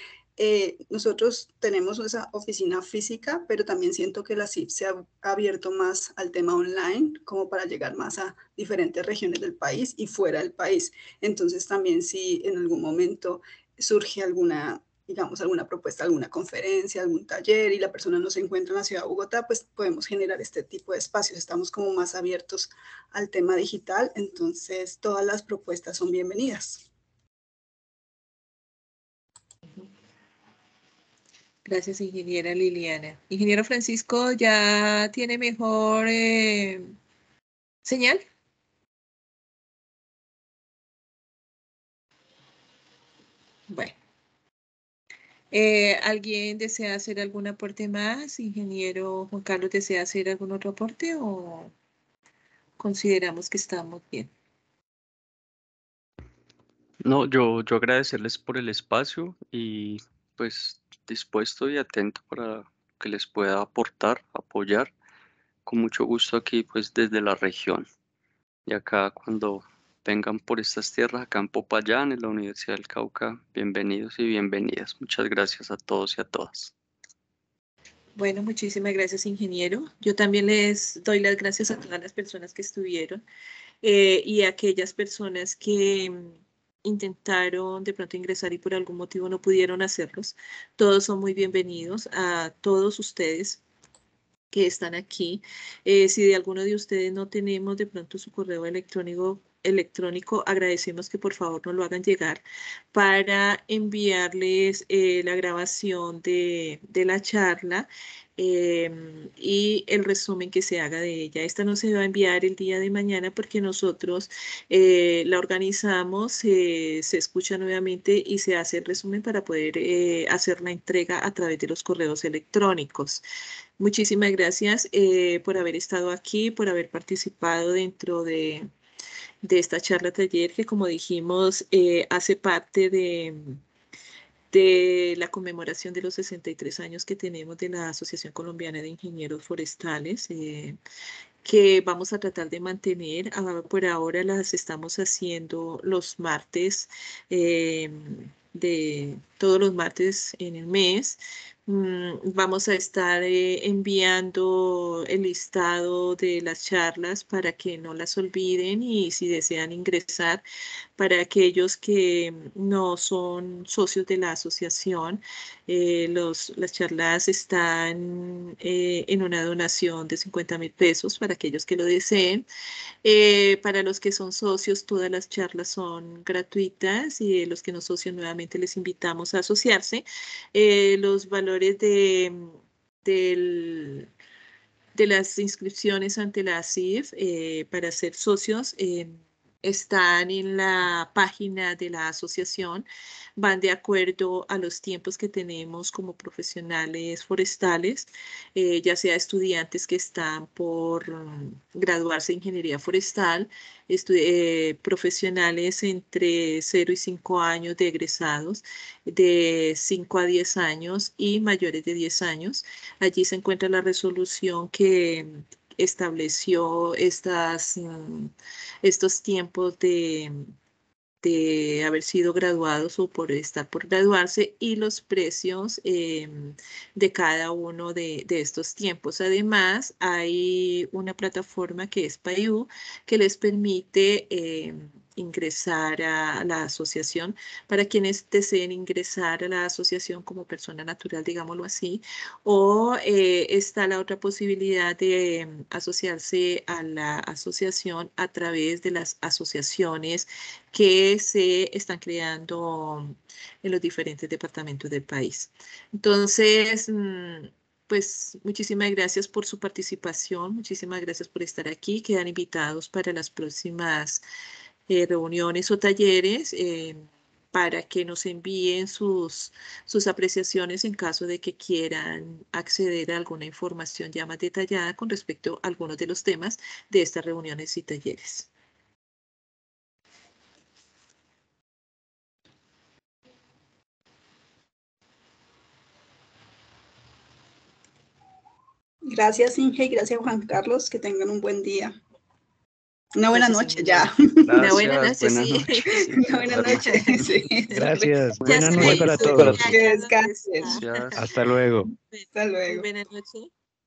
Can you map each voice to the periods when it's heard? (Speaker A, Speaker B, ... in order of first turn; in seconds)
Speaker A: 0.4-26.9, 289.1-292.0, 293.1-294.8, 296.0-297.9, 298.5-300.8, 302.4-302.9
Speaker B: 31.7-36.9, 37.9-38.2, 43.7-43.9, 45.5-51.7, 52.8-54.3, 78.2-83.2, 83.8-93.6, 94.5-102.4, 102.9-123.2, 123.8-128.7, 129.4-133.6, 134.5-140.8, 141.4-160.4, 161.0-172.5, 173.0-184.1, 184.9-192.9, 193.4-220.5, 221.2-264.2, 264.9-278.5, 293.3-301.2, 301.9-303.5
Speaker C: 57.0-64.9, 65.7-67.8, 68.7-76.7, 294.5-297.3, 298.4-299.7, 300.7-301.1
Speaker D: 294.5-294.9, 296.4-296.7, 297.7-299.8, 301.1-301.9